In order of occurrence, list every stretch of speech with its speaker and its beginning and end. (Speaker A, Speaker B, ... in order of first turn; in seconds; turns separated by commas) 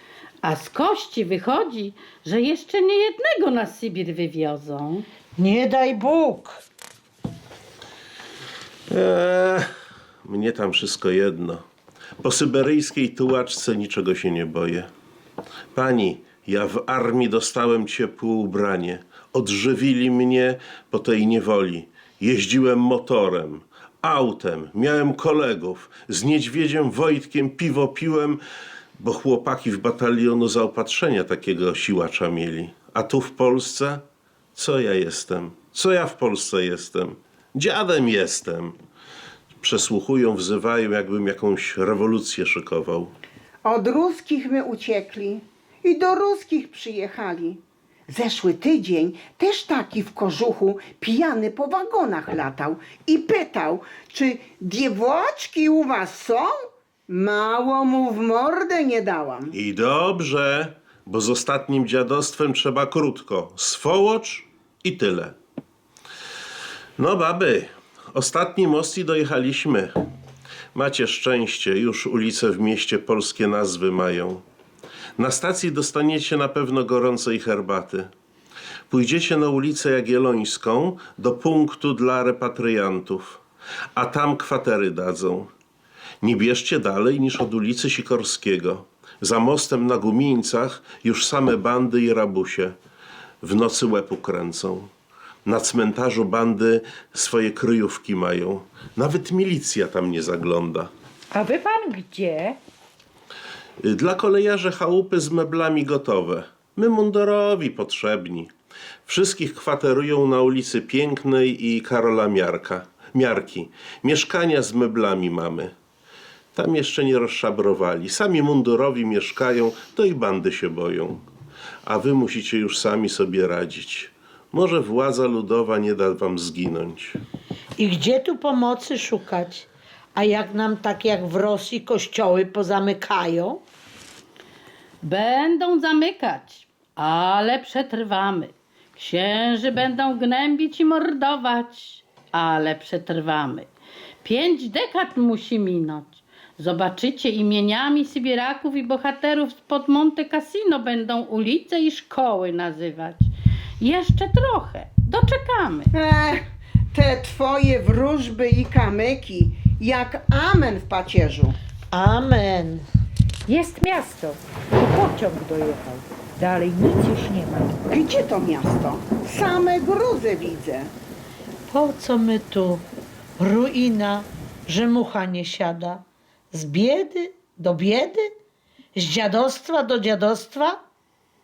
Speaker A: 0.4-5.1, Speaker B: 5.4-6.6, Speaker C: 8.9-9.7, Speaker C: 10.2-11.6, Speaker C: 12.2-14.9, Speaker C: 15.7-28.4, Speaker C: 29.0-34.0, Speaker C: 34.5-38.8, Speaker C: 39.6-43.1, Speaker D: 43.6-56.5, Speaker D: 57.1-59.5, Speaker C: 59.5-65.4, Speaker C: 67.0-69.9, Speaker C: 70.7-74.4, Speaker C: 75.2-78.1, Speaker C: 78.9-83.4, Speaker C: 84.0-85.5, Speaker C: 86.2-92.8, Speaker C: 93.4-94.9, Speaker C: 95.5-100.9, Speaker E: 101.3-102.6, Speaker C: 103.8-108.5, Speaker C: 109.1-115.7, Speaker C: 116.5-121.2, Speaker C: 121.8-127.2, Speaker B: 127.8-133.6, Speaker A: 135.0-143.7, Speaker A: 144.2-155.9, Speaker D: 155.9-156.4, Speaker D: 156.9-161.6, Speaker B: 161.9-162.8, Speaker E: 163.5-167.8, Speaker D: 167.9-170.9, Speaker B: 171.7-172.9, Speaker B: 173.4-178.3, Speaker B: 179.0-180.8